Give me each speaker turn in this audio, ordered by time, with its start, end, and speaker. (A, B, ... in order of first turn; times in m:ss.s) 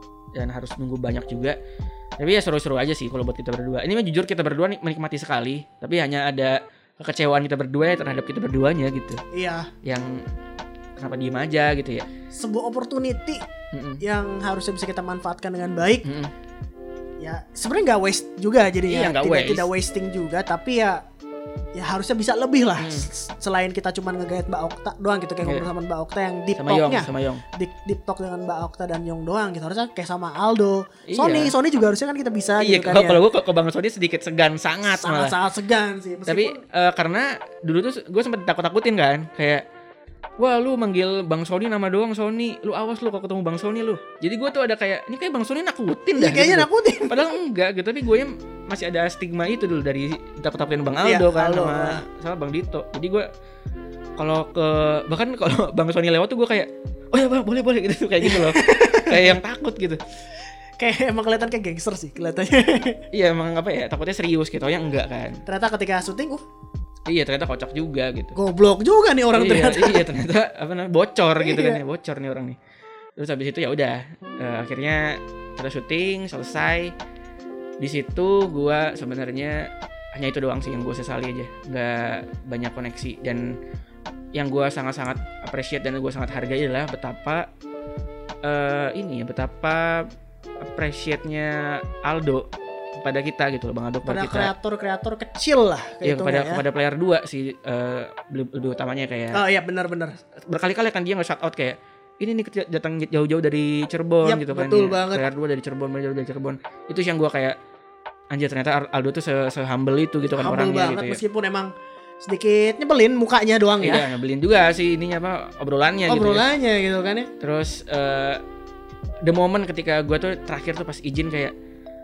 0:00.4-0:01.6 A
0:02.2-0:09.2 A
0:09.3-0:09.7 B
0:09.8-0:10.2 A
0:11.0-0:12.1 A
0:12.3-0:13.4 B
0:13.7-0:14.0 A
0:14.0-0:16.1 B
0:16.0-0:16.3 A
0:17.2-0:21.0 B
0:18.9-0:19.7 A
0:21.8-0:33.2 B
0:22.8-0:23.1 A
0:25.4-0:25.7 A
0:26.6-0:27.4 A
0:31.1-0:31.6 A
0:32.6-0:35.4 A
0:34.9-0:36.6 B
0:36.3-0:39.6 A
0:40.4-0:53.3 A
0:46.2-0:47.2 B
0:51.0-0:52.0 B
0:54.2-1:00.0 A
0:58.2-0:59.3 B
1:00.8-1:03.0 B
1:03.1-1:05.4 A
1:05.4-1:06.4 B
1:07.1-1:08.4 A
1:08.4-1:10.1 B
1:09.4-1:12.6 A
1:11.4-1:11.8 B
1:13.2-1:16.9 A
1:17.8-1:23.6 A
1:24.4-1:27.5 A
1:28.4-1:30.1 A
1:30.6-1:34.5 A
1:34.1-1:36.6 B
1:36.0-1:39.4 A
1:39.3-1:40.2 B
1:40.2-1:47.6 A
1:44.2-1:45.3 B
1:48.3-1:51.2 A
1:50.4-1:51.7 B
1:52.2-1:54.1 B
1:53.8-1:56.4 A
1:56.1-1:57.3 B
1:57.4-1:58.4 A
1:59.2-2:01.5 A